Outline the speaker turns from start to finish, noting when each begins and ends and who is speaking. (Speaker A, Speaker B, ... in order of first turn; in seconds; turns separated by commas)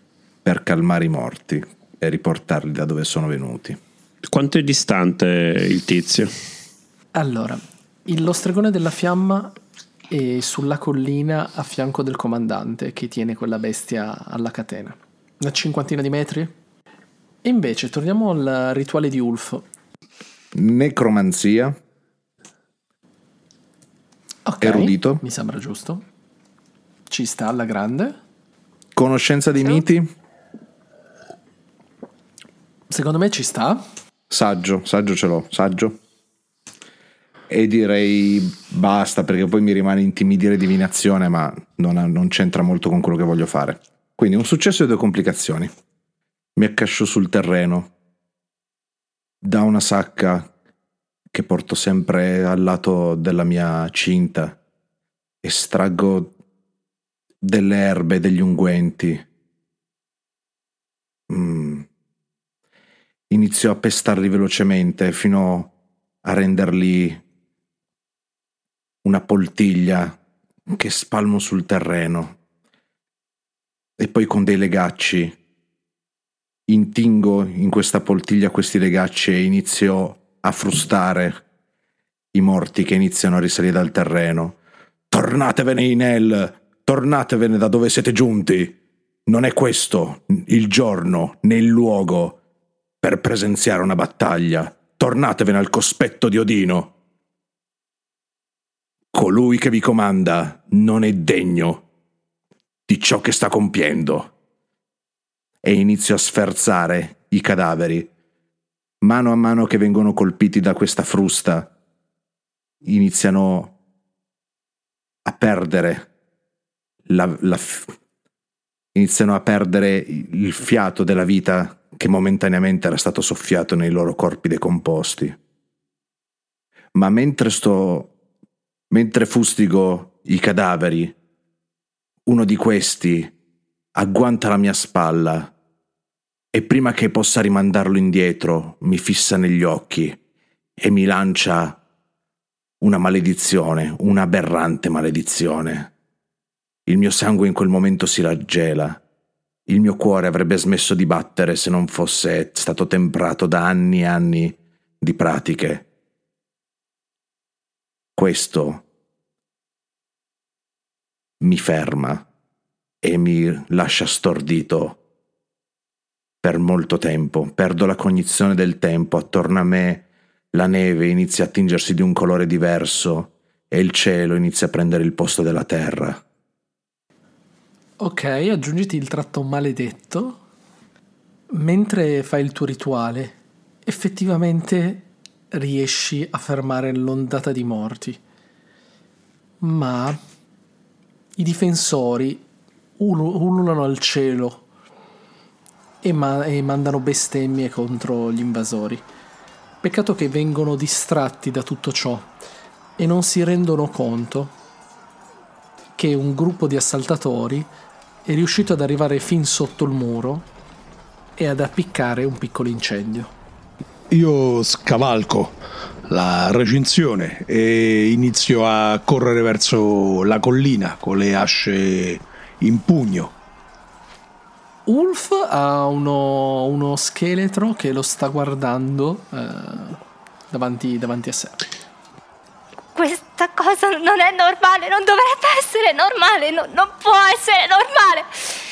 Speaker A: 0.4-3.8, Speaker B: 4.2-6.3, Speaker C: 7.2-9.6, Speaker C: 10.1-16.5, Speaker C: 17.4-19.6, Speaker A: 20.5-21.8, Speaker C: 24.5-26.1, Speaker A: 24.6-25.2, Speaker C: 27.1-28.2, Speaker A: 28.9-30.1, Speaker C: 32.9-33.8, Speaker A: 34.3-36.0, Speaker A: 37.5-45.7, Speaker A: 46.6-47.9, Speaker A: 49.4-50.5, Speaker A: 51.3-54.6, Speaker A: 55.4-56.3, Speaker A: 57.4-59.3, Speaker A: 61.3-61.9, Speaker A: 63.3-65.7, Speaker A: 66.2-67.2, Speaker A: 69.0-72.4, Speaker A: 74.0-75.4, Speaker A: 76.7-81.4, Speaker A: 82.3-84.6, Speaker A: 85.1-92.4, Speaker A: 93.0-96.9, Speaker A: 99.1-101.9, Speaker A: 102.9-104.3, Speaker A: 105.6-108.1, Speaker A: 109.0-111.7, Speaker A: 112.8-113.8, Speaker A: 115.2-116.1, Speaker A: 117.1-117.9, Speaker A: 119.0-125.4, Speaker A: 126.9-128.1, Speaker A: 128.9-131.2, Speaker A: 132.3-133.3, Speaker A: 133.9-135.5, Speaker A: 136.5-140.2, Speaker A: 140.8-141.8, Speaker A: 142.8-145.9, Speaker A: 146.9-149.0, Speaker A: 149.7-155.9, Speaker A: 158.2-158.8, Speaker A: 161.4-162.3, Speaker A: 163.0-165.0, Speaker A: 166.4-176.2, Speaker C: 178.0-180.4, Speaker C: 181.5-188.2, Speaker C: 189.6-190.2, Speaker C: 191.4-192.4, Speaker C: 193.0-194.7, Speaker C: 196.0-199.0, Speaker C: 199.8-202.3, Speaker C: 203.0-204.5, Speaker C: 206.0-207.7, Speaker C: 208.2-210.5, Speaker C: 211.4-213.3, Speaker D: 214.1-223.3, Speaker C: 224.9-230.0, Speaker C: 230.5-231.6, Speaker E: 232.9-238.5